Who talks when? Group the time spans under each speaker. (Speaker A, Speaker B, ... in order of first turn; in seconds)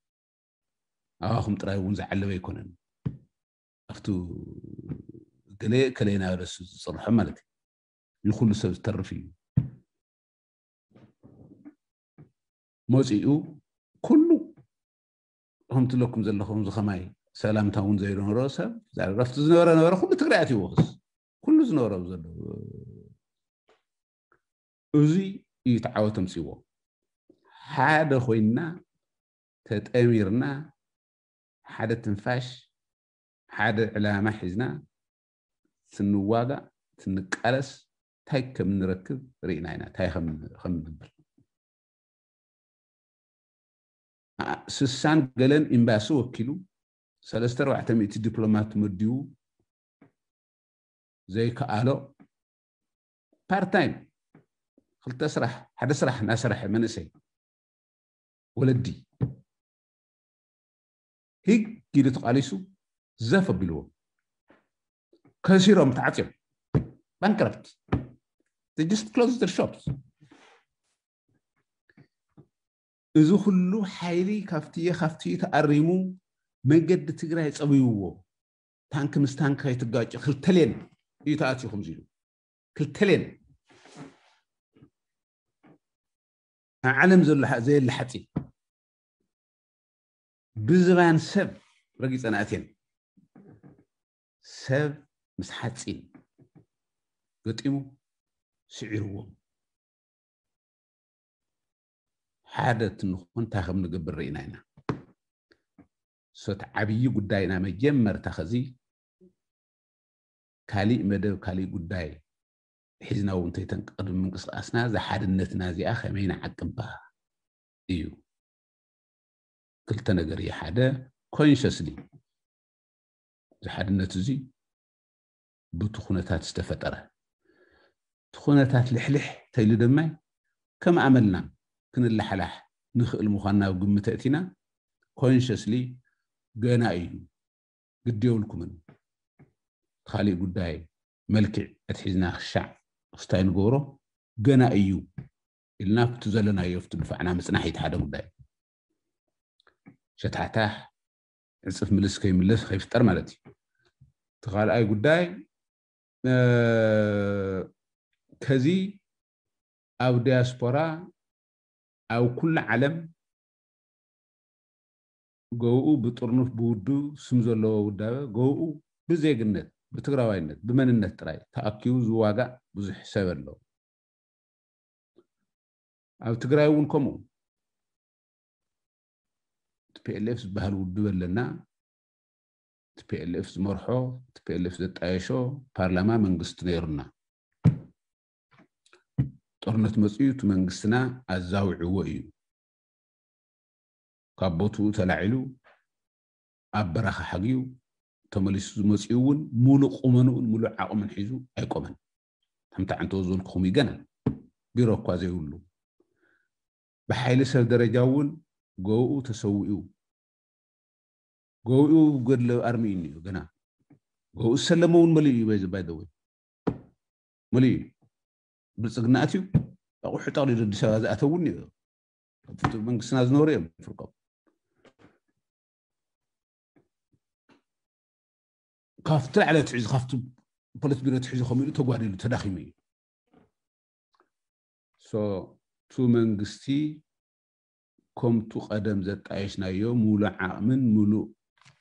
Speaker A: 1.2-2.7, 3.9-7.5, 8.2-9.3, 12.9-14.5, 15.7-23.1, 24.9-26.6, 27.6-28.7, 29.6-30.7, 31.7-32.7, 33.5-34.8, 35.9-41.1, 44.4-46.6, 47.2-49.3, 51.3-52.1, 53.5-54.1, 55.0-57.1, 58.6-59.0, 61.5-62.6, 63.2-63.9, 65.4-66.3, 67.2-67.7, 68.8-69.9, 73.2-76.2, 76.7-78.2, 78.9-82.1, 82.8-83.4, 86.9-88.3, 90.6-92.7, 94.4-96.1, 97.4-97.9, 98.7-99.3, 102.5-104.6, 106.3-108.7, 110.7-112.2, 113.0-117.0, 117.9-118.2, 119.9-122.0, 123.6-124.5, 125.8-127.1, 128.3-130.1, 130.8-134.4, 135.2-136.0, 136.6-137.3, 138.1-138.8, 140.1-145.0, 145.8-148.3, 150.2-150.9, 151.7-153.4, 154.4-155.3, 156.3-157.7, 158.4-159.0, 160.0-161.1, 162.1-163.1, 165.6-173.6, 176.2-177.2, 179.9-181.5, 183.0-187.1, 189.6-192.3, 194.4-195.4, 196.8-197.7, 198.3-202.0, 202.7-204.1, 204.8-205.6, 207.1-209.9, 211.7-213.5, 214.4-216.1, 217.5-217.9, 218.8-221.7, 222.5-224.1, 229.1-230.3, 230.8-232.7, 235.0-237.0, 238.2-241.3